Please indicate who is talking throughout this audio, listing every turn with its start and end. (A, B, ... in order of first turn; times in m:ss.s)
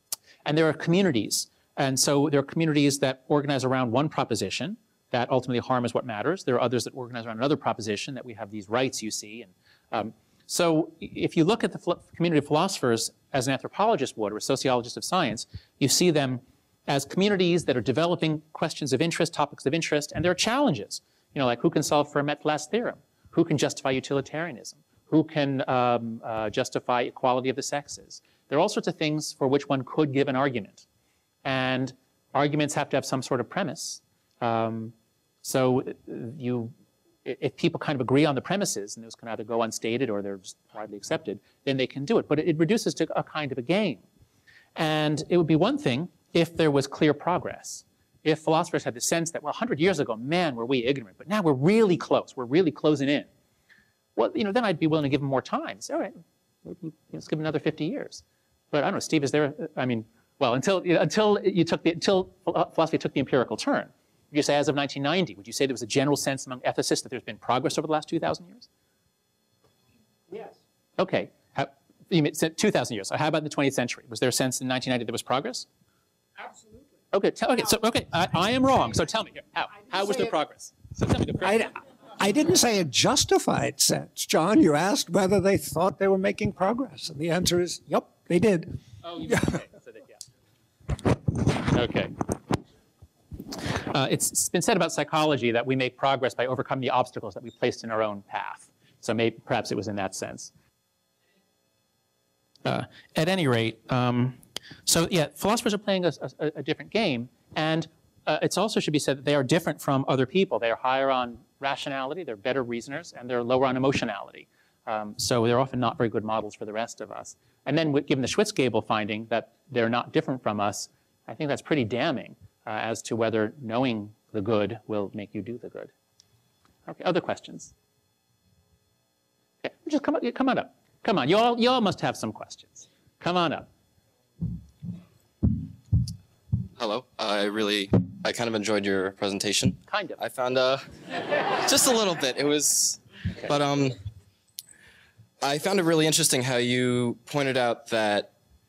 0:00.4-0:30.8 A
0:31.4-0:36.7 A
0:37.2-0:44.0 A
0:44.8-0:53.3 A
0:54.2-0:56.1 A
0:56.6-1:08.7 A
1:11.0-1:15.7 A
1:17.1-1:21.7 A
1:21.4-1:29.6 B
1:29.0-1:30.2 A
1:31.5-1:32.1 A
1:33.7-1:40.5 A
1:42.6-2:05.9 A
2:06.9-2:07.7 A
2:09.6-2:13.7 A
2:16.8-2:20.8 C
2:19.9-2:20.2 A
2:21.3-2:24.0 C
2:25.4-2:28.3 C